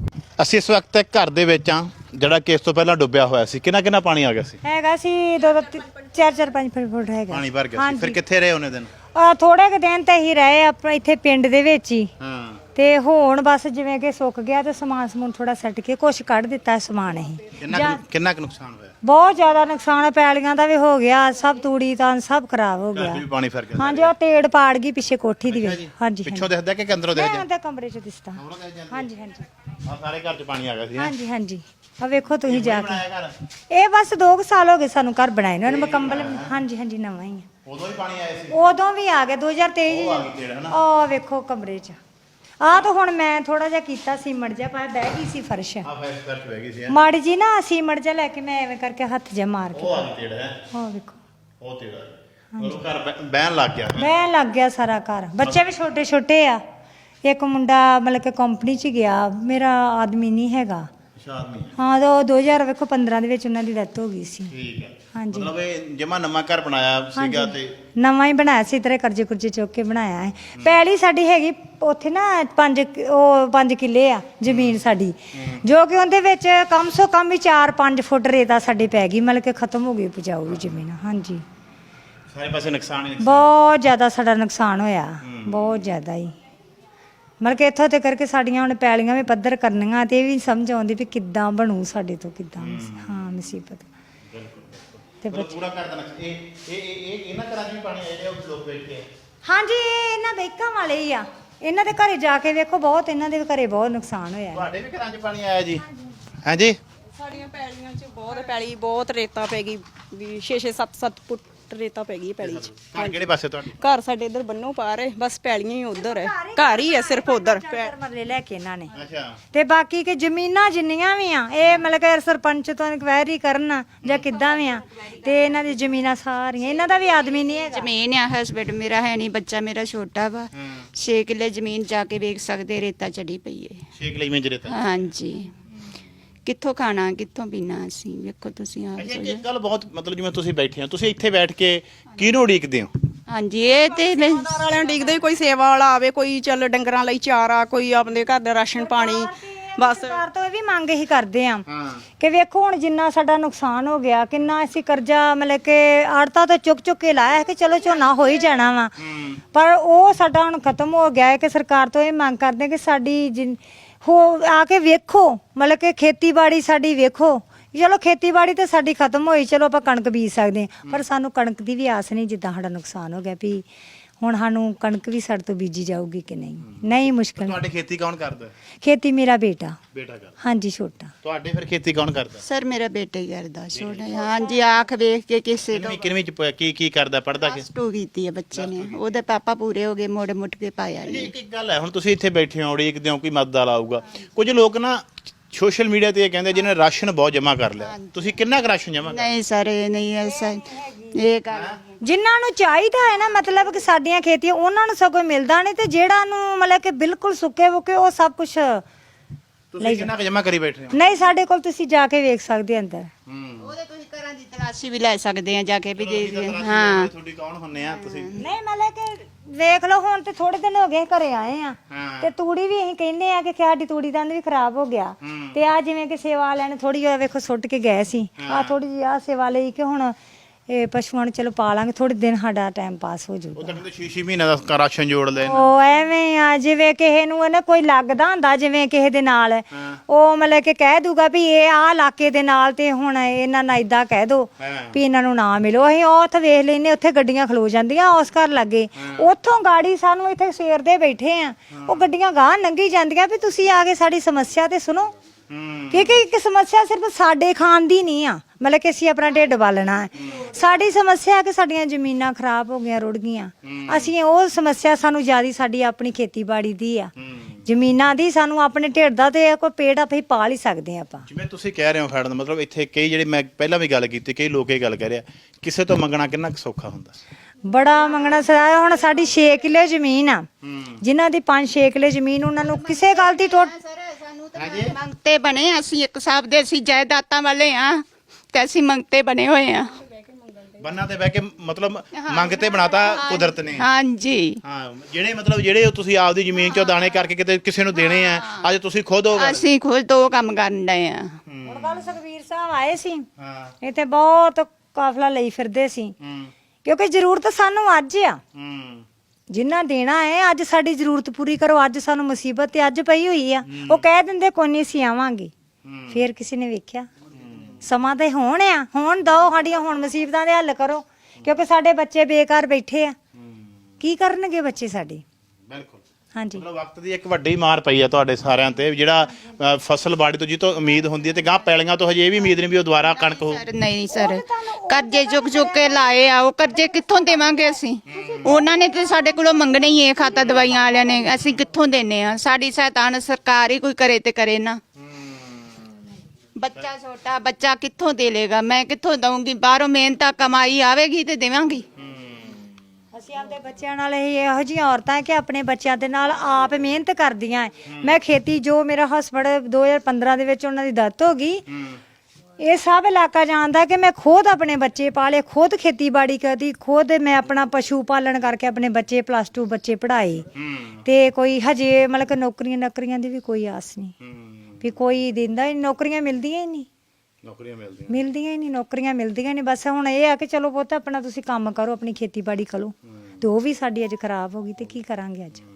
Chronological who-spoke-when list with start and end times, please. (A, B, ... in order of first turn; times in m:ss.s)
0:00.4-0:04.6 A
0:04.6-0:08.2 B
0:07.3-0:08.9 A
0:09.2-0:12.1 B
0:12.2-0:12.6 A
0:12.8-0:18.0 B
0:17.6-0:18.9 A
0:19.0-0:23.2 B
0:22.9-0:24.1 A
0:23.8-0:26.5 B
0:25.5-0:27.4 A
0:27.1-0:28.4 B
0:28.4-0:29.1 A
0:28.9-0:29.4 B
0:29.8-0:31.1 A
0:31.0-0:33.0 B
0:32.4-0:33.3 A
0:33.7-0:37.5 B
0:35.7-0:36.5 A
0:37.6-0:38.6 A
0:38.5-0:42.0 B
0:39.9-0:40.8 A
0:42.6-0:45.9 B
0:45.8-0:47.0 A
0:46.9-0:50.1 B
0:49.7-0:50.5 A
0:50.7-0:51.2 B
0:51.6-0:54.1 A
0:54.0-0:56.6 B
0:57.2-1:00.9 B
1:01.2-1:01.7 A
1:01.8-1:04.5 B
1:04.5-1:07.7 A
1:05.2-1:05.5 B
1:07.2-1:21.4 B
1:14.5-1:14.8 A
1:15.4-1:15.6 A
1:22.3-1:23.5 A
1:23.2-1:26.3 B
1:25.2-1:25.8 A
1:27.4-1:33.9 B
1:32.6-1:33.2 A
1:34.3-1:39.1 A
1:35.2-1:35.6 B
1:39.4-1:44.7 B
1:44.5-1:45.8 A
1:46.4-1:46.8 A
1:47.2-1:53.2 C
1:52.4-1:53.7 A
1:53.8-1:57.9 C
1:56.0-1:58.9 B
1:58.9-1:59.4 A
1:59.5-2:07.9 B
2:07.7-2:13.8 D
2:10.6-2:10.9 A
2:14.0-2:14.9 A
2:14.7-2:15.5 D
2:16.5-2:19.4 D
2:19.0-2:22.9 A
2:23.3-2:24.8 D
2:24.4-2:30.2 C
2:28.8-2:31.6 B
2:31.7-2:32.0 A
2:32.2-2:38.9 B
2:39.0-2:39.4 A
2:39.5-2:53.6 B
2:54.2-2:57.6 B
2:56.7-2:58.5 A
2:58.8-2:59.8 B
2:59.9-3:00.3 A
3:00.4-3:01.1 B
3:01.2-3:02.4 A
3:02.4-3:06.1 D
3:03.7-3:04.5 A
3:05.7-3:07.7 A
3:07.4-3:11.3 D
3:08.5-3:09.0 A
3:11.0-3:19.3 A
3:19.0-3:21.8 D
3:21.5-3:21.8 A
3:22.0-3:28.8 B
3:29.7-3:31.0 A
3:29.8-3:30.1 B
3:30.9-3:33.1 B
3:33.3-3:33.7 A
3:33.6-3:37.1 D
3:36.0-3:38.4 A
3:38.4-3:50.2 B
3:41.9-3:42.3 A
3:45.2-3:45.6 A
3:48.4-3:48.8 A
3:50.7-3:53.8 B
3:53.6-3:55.7 A
3:55.4-4:15.1 B
4:04.6-4:05.0 A
4:11.8-4:12.0 A
4:15.5-4:16.2 A
4:15.9-4:27.1 B
4:23.6-4:24.1 A
4:27.2-4:27.6 A
4:27.7-4:31.2 B
4:31.3-4:37.2 A
4:37.7-4:40.5 B
4:40.6-4:41.0 A
4:41.0-4:43.7 B
4:42.6-4:50.4 D
4:44.6-4:44.9 A
4:50.8-4:53.9 A
4:52.2-4:54.6 D
4:54.6-4:59.6 A
4:58.0-4:58.6 D
4:59.4-5:01.3 D
5:01.5-5:02.0 A
5:01.7-5:03.3 B
5:03.4-5:03.7 A
5:03.8-5:06.2 B
5:06.2-5:06.5 A
5:06.8-5:08.4 B
5:08.6-5:09.0 A
5:09.5-5:15.5 B
5:13.7-5:14.0 A
5:15.8-5:16.2 A
5:16.1-5:17.1 B
5:17.4-5:17.8 A
5:17.8-5:23.2 B
5:23.4-5:23.7 A
5:24.0-5:25.2 B
5:25.7-5:26.0 A
5:26.4-5:26.6 B
5:26.5-5:33.6 A
5:33.0-5:44.8 D
5:34.1-5:36.1 B
5:37.0-5:39.4 B
5:38.2-5:38.5 A
5:45.0-5:46.1 A
5:46.6-5:51.8 D
5:52.0-5:52.6 A
5:53.1-6:01.6 B
6:01.7-6:02.0 A
6:02.6-6:10.5 B
6:10.6-6:11.0 A
6:11.1-6:14.1 B
6:14.2-6:14.9 A
6:14.8-6:16.9 B
6:17.4-6:18.2 A
6:18.1-6:25.6 B